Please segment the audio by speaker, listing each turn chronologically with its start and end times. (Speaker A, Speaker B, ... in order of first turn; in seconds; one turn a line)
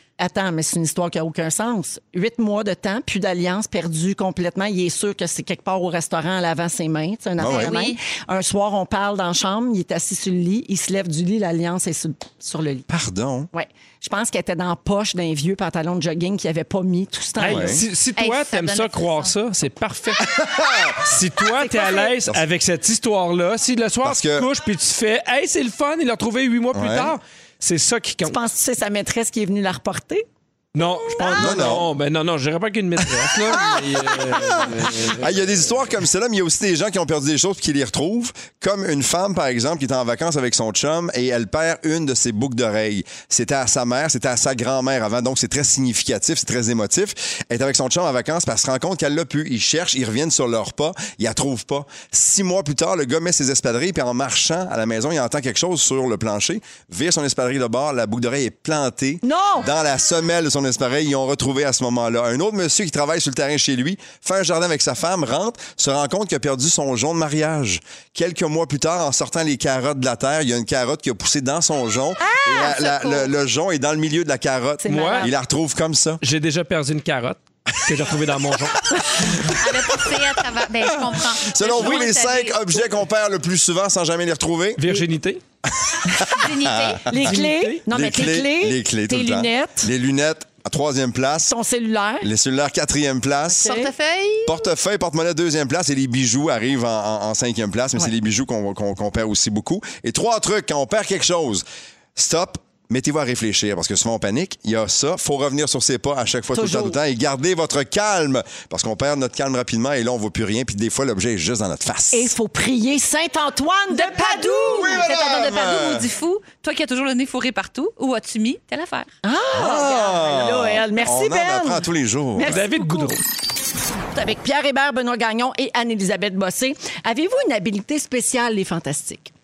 Speaker A: 0.2-12.9
Speaker B: 7.4-7.8
Speaker C: 7.4-8.0
Speaker B: 12.9-13.5
Speaker A: 13.5-17.8
Speaker D: 17.4-20.3
Speaker B: 17.4-17.8
Speaker C: 18.2-19.3
Speaker B: 20.2-21.1
Speaker D: 21.0-28.4
Speaker A: 21.5-22.2
Speaker B: 24.0-24.5
Speaker B: 26.7-27.1
Speaker A: 28.2-30.3
Speaker D: 30.7-35.2
Speaker A: 31.1-31.6
Speaker B: 31.4-31.9
Speaker A: 33.5-34.9
Speaker B: 33.8-76.2
Speaker A: 59.2-59.7
Speaker C: 72.2-73.3
Speaker A: 74.8-75.3
Speaker D: 74.9-75.3
Speaker D: 76.2-79.4
Speaker C: 79.5-82.9
Speaker B: 81.3-84.8
Speaker D: 84.8-85.4
Speaker B: 86.1-91.5
Speaker C: 86.3-87.1
Speaker A: 87.1-89.9
Speaker D: 87.2-87.8
Speaker A: 91.4-92.3
Speaker B: 92.2-93.9
Speaker A: 93.6-93.9
Speaker C: 93.6-94.6
Speaker B: 94.5-101.6
Speaker B: 102.2-112.3
Speaker A: 106.5-107.0
Speaker A: 112.1-115.0
Speaker C: 113.9-119.1
Speaker B: 114.7-116.1
Speaker A: 119.2-121.8
Speaker B: 119.5-122.6
Speaker A: 122.4-123.2
Speaker D: 122.5-123.2
Speaker A: 124.1-129.3